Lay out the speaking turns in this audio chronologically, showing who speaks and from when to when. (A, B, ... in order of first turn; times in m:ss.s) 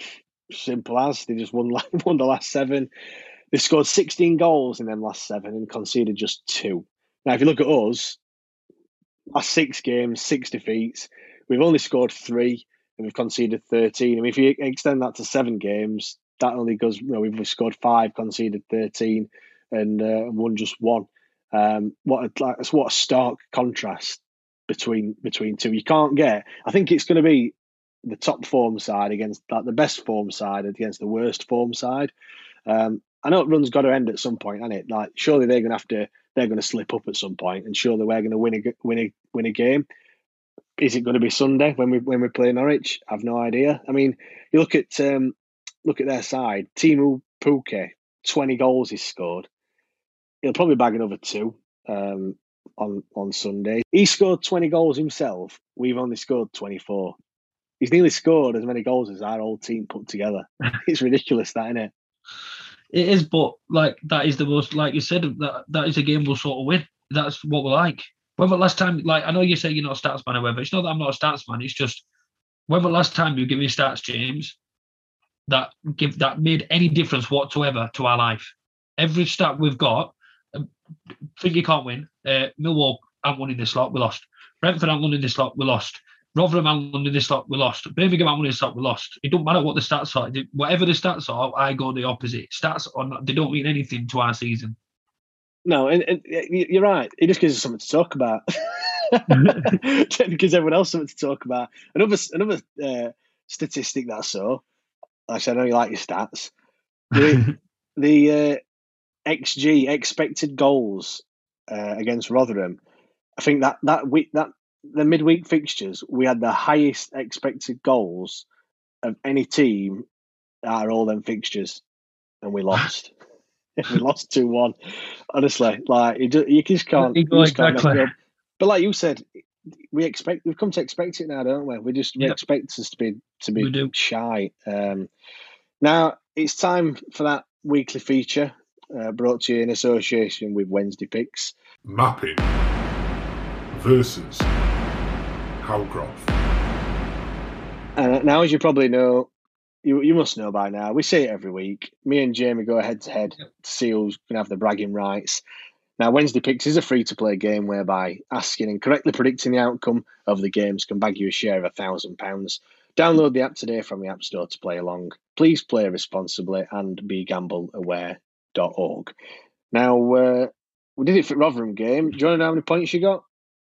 0:00.5-0:02.9 A
0:03.5-0:08.2 A
0:09.3-0:27.5 A
0:28.0-0:32.1 A
0:32.7-0:39.8 A
0:40.8-0:49.5 A
0:50.4-0:57.2 A
0:57.8-1:01.9 A
1:02.9-1:12.0 B
1:12.7-1:14.6 B
1:15.5-1:20.7 B
1:21.4-1:34.8 B
1:35.6-1:44.6 A
1:39.3-1:39.7 B
1:45.3-1:46.5 A
1:47.1-1:48.6 A
1:47.2-1:47.5 B
1:49.3-1:52.8 A
1:53.4-1:58.4 A
1:59.0-2:00.0 A
2:00.6-2:01.8 A
2:02.4-2:03.1 A
2:03.8-2:04.7 A
2:05.3-2:09.2 A
2:07.0-2:08.1 B
2:09.9-2:15.1 A
2:13.6-2:13.9 B
2:15.8-2:21.5 A
2:21.8-2:22.4 C
2:23.7-2:24.5 C
2:25.6-2:26.3 C
2:28.0-2:29.3 A
2:29.8-2:35.4 A
2:36.0-2:49.1 A
2:49.7-2:53.2 A